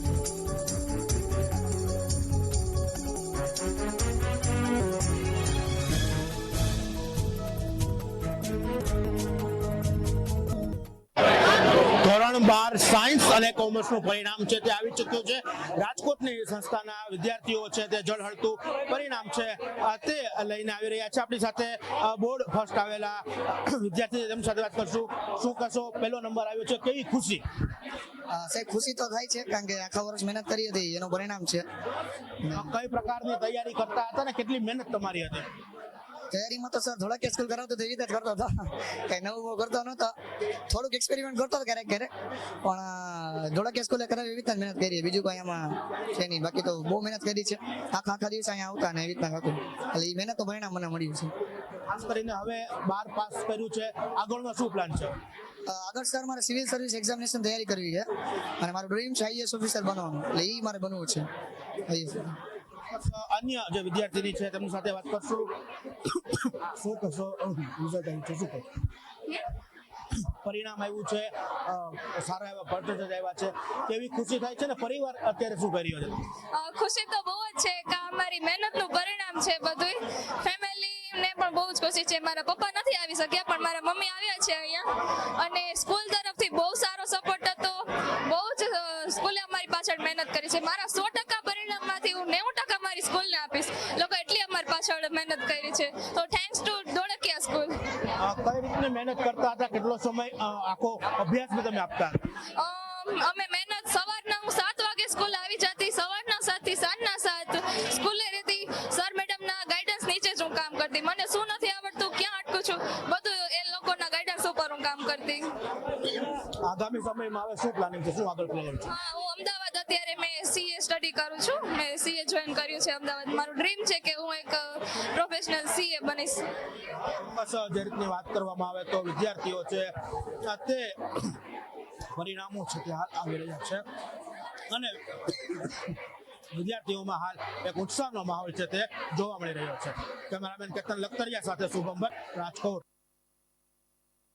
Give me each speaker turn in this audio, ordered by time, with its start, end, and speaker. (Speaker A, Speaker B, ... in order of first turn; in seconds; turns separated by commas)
Speaker A: 11.8-27.4, Speaker B: 28.3-31.6, Speaker B: 32.4-32.7, Speaker A: 32.5-35.5, Speaker B: 36.3-40.1, Speaker B: 40.7-42.1, Speaker B: 42.6-51.3, Speaker A: 51.9-55.2, Speaker B: 55.7-58.1, Speaker B: 58.6-61.3, Speaker B: 61.9-62.4, Speaker A: 62.9-65.5, Speaker A: 66.0-68.8, Speaker A: 70.1-76.3, Speaker C: 76.5-98.0, Speaker A: 98.2-102.3, Speaker C: 102.6-115.5, Speaker A: 116.0-118.9, Speaker C: 118.8-126.5, Speaker A: 127.0-131.4, Speaker A: 132.1-133.8, Speaker A: 134.7-136.0, Speaker A: 136.5-142.8